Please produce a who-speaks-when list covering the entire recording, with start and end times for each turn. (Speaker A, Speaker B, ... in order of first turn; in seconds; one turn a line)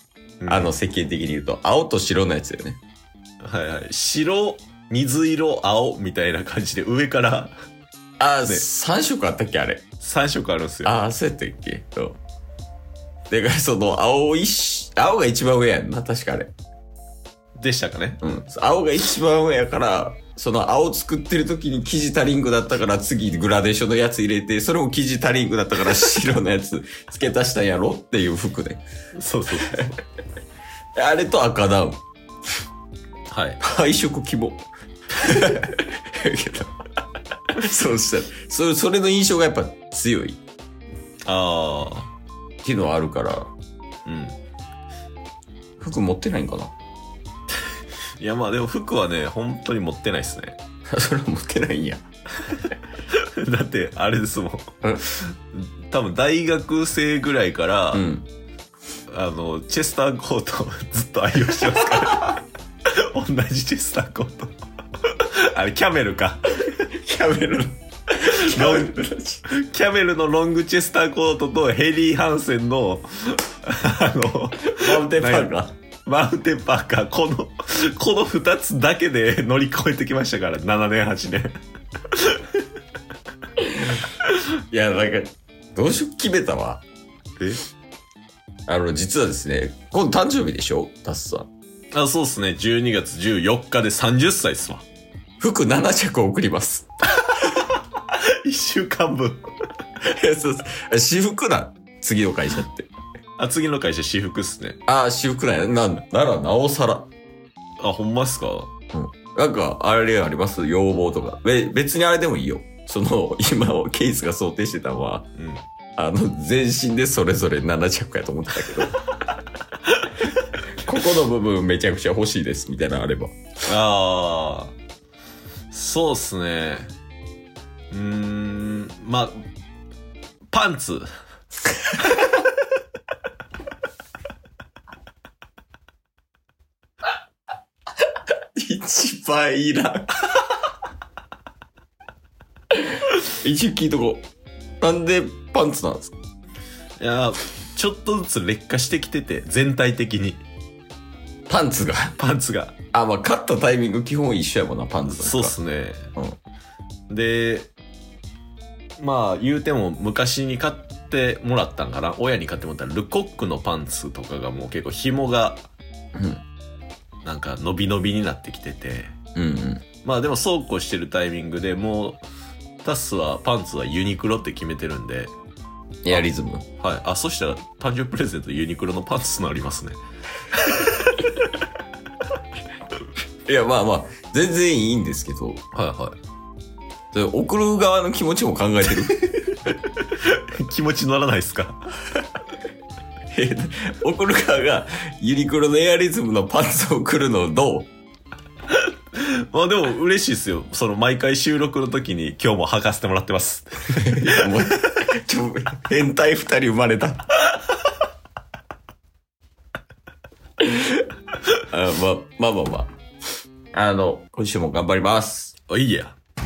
Speaker A: 0.4-0.7
Speaker B: 0.5-2.8
Speaker A: 3.4-7.5
Speaker B: 8.2-9.8
Speaker A: 10.0-10.9
Speaker B: 10.8-12.2
Speaker B: 13.3-16.5
Speaker A: 17.6-18.2
Speaker B: 18.2-28.8
Speaker A: 29.1-29.9
Speaker B: 30.9-32.0
Speaker A: 33.3-33.6
Speaker B: 33.6-36.7
Speaker B: 37.5-40.4
Speaker A: 41.2-42.1
Speaker B: 42.6-43.5
Speaker A: 44.0-44.4
Speaker B: 45.8-46.7
Speaker A: 48.2-50.6
Speaker B: 50.9-52.0
Speaker A: 53.1-58.0
Speaker B: 57.9-58.3
Speaker A: 59.1-66.5
Speaker B: 66.6-69.4
Speaker A: 68.2-69.0
Speaker A: 69.5-75.5
Speaker B: 74.6-75.7
Speaker A: 76.0-81.5
Speaker A: 82.1-82.6
Speaker B: 84.7-86.8
Speaker B: 88.7-91.5
Speaker A: 91.9-94.8
Speaker B: 95.4-96.9
Speaker A: 97.2-99.4
Speaker B: 100.0-102.9
Speaker A: 103.4-104.8
Speaker B: 104.9-107.1
Speaker A: 107.8-108.7
Speaker B: 108.9-115.3
Speaker A: 115.4-115.6
Speaker B: 116.0-119.0
Speaker B: 120.8-123.3
Speaker A: 123.7-124.7
Speaker A: 125.7-126.9
Speaker A: 127.9-129.4
Speaker A: 130.5-131.1
Speaker B: 138.6-140.3
Speaker B: 142.8-144.2
Speaker B: 144.8-146.1
Speaker A: 147.0-150.4
Speaker B: 151.5-152.2
Speaker A: 152.2-152.8
Speaker B: 152.9-155.6
Speaker A: 155.1-156.1
Speaker A: 157.1-157.7
Speaker A: 159.0-165.7
Speaker B: 166.1-166.4
Speaker A: 167.2-169.1
Speaker B: 169.3-169.8
Speaker A: 170.0-172.2
Speaker A: 172.8-175.3
Speaker B: 176.0-176.7
Speaker A: 176.8-180.0
Speaker A: 180.5-181.3
Speaker B: 183.4-185.6
Speaker A: 185.7-186.2
Speaker B: 187.1-189.2
Speaker A: 189.9-191.9
Speaker B: 193.3-197.9
Speaker A: 198.8-204.5
Speaker B: 204.0-207.3
Speaker B: 210.6-211.0
Speaker B: 211.7-212.9
Speaker B: 213.7-215.5
Speaker A: 215.7-216.1